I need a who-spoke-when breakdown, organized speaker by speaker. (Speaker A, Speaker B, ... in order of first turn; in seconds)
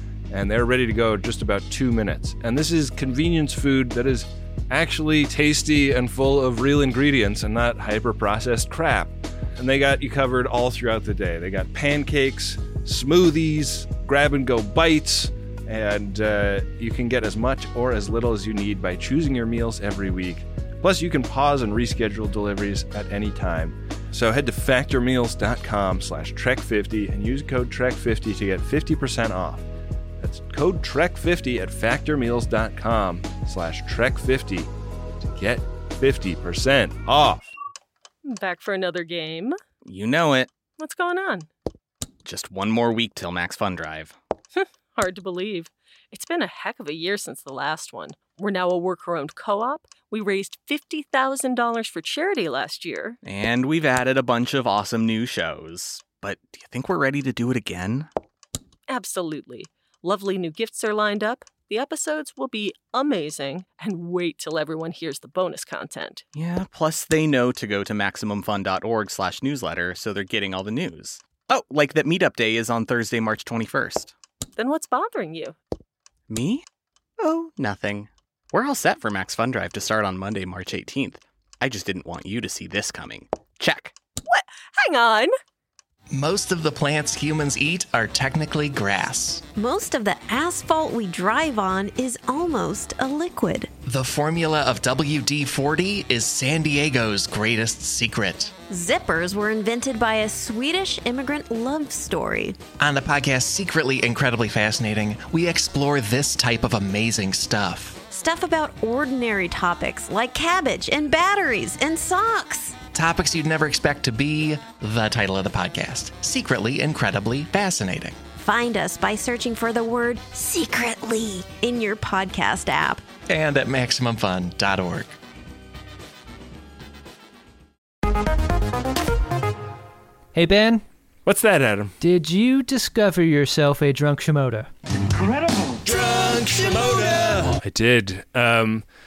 Speaker A: 0.3-29.6, 30.2-34.7, 35.3-37.5, 131.2-131.9, 135.8-138.8
Speaker B: 38.2-39.6, 40.8-41.5, 44.5-53.2, 58.9-66.2, 74.6-75.5, 84.3-85.3
Speaker C: 39.8-40.5, 42.2-44.1, 53.2-58.1, 66.3-74.1, 76.3-76.6, 77.2-83.9
Speaker D: 86.1-89.5, 93.8-98.5, 102.8-108.0, 112.9-118.2, 123.3-125.1
Speaker E: 89.5-93.7, 98.7-102.6, 108.1-112.8, 118.4-123.0
Speaker F: 130.3-130.8, 132.0-134.7